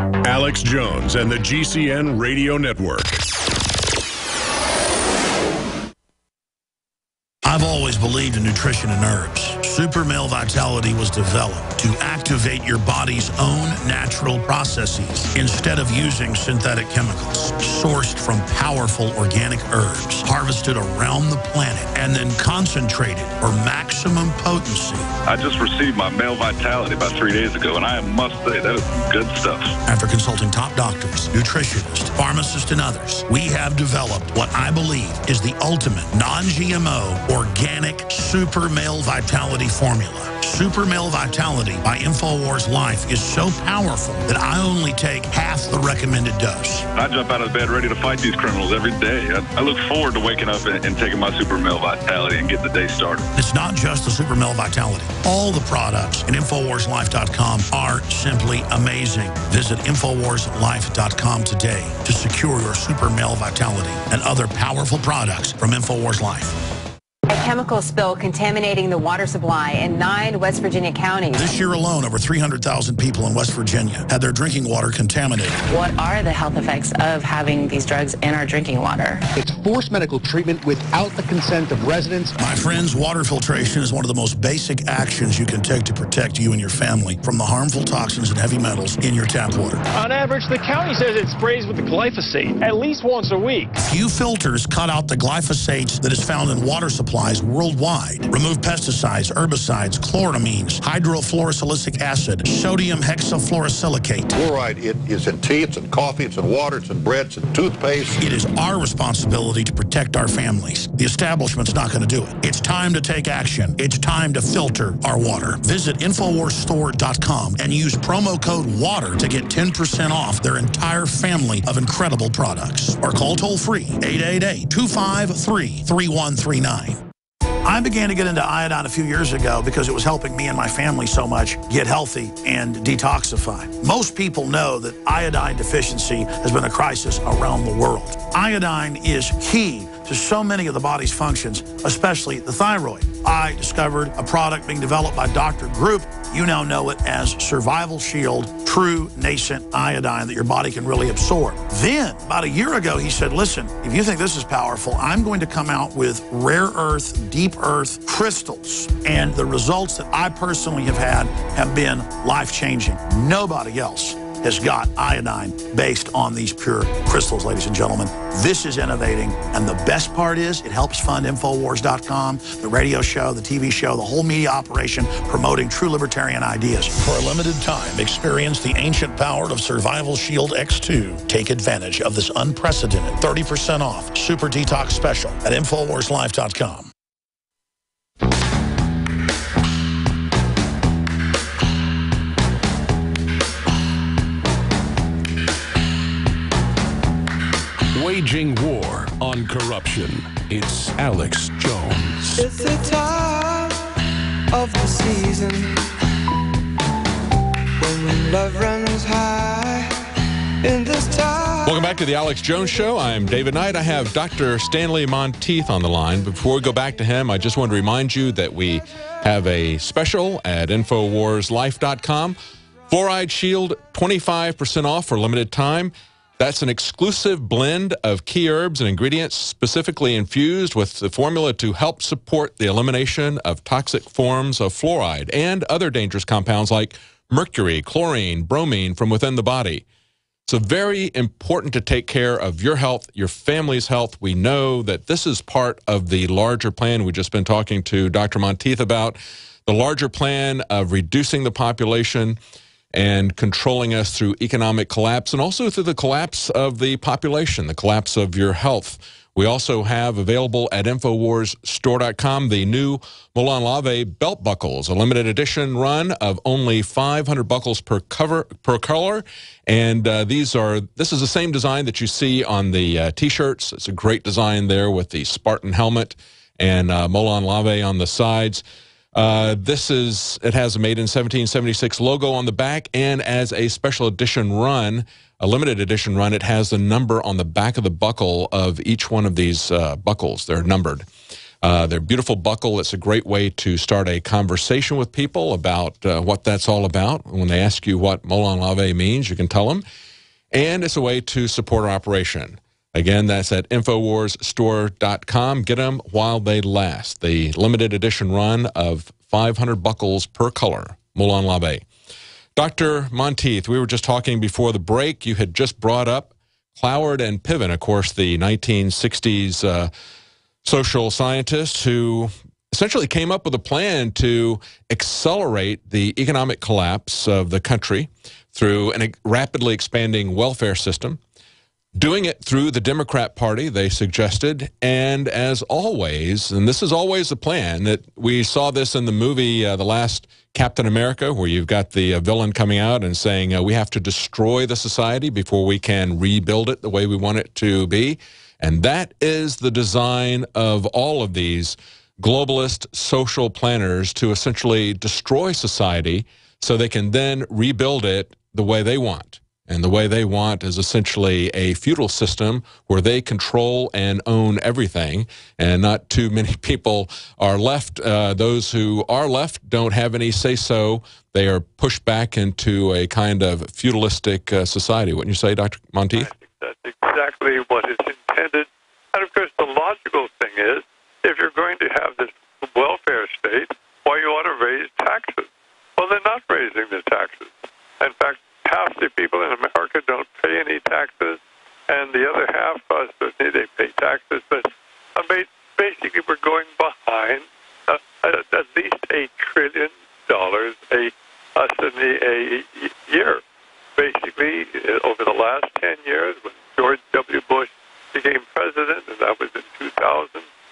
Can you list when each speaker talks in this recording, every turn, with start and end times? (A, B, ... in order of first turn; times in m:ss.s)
0:00.2-0:03.2 A
0:07.4-0:25.1 B
0:25.2-0:29.7 C
0:29.9-0:46.8 B
0:46.9-0:53.3 C
0:53.3-1:06.6 B
1:07.3-1:11.4 D
1:11.3-1:15.6 B
1:15.7-1:19.2 E
1:19.4-1:22.4 F
1:22.4-1:29.8 B
1:29.9-1:33.8 G
1:33.8-1:44.3 B
1:44.3-1:48.4 H
1:48.2-2:07.0 B
2:07.6-3:06.9 B
3:17.9-3:22.4 A
3:22.4-3:23.9 I
3:24.5-3:25.9 I
3:27.8-3:30.0 I
3:30.6-3:31.7 I
3:31.6-3:42.4 J
3:42.9-3:59.8 J
4:00.5-4:12.4 J
4:12.9-4:38.6 J
4:39.1-4:51.0 J
4:51.6-4:59.8 J
5:00.5-5:11.8 J
5:12.6-5:19.9 J
5:20.6-5:31.2 J
5:31.9-6:16.3 J
6:16.1-6:43.4 K
6:44.0-6:50.5 K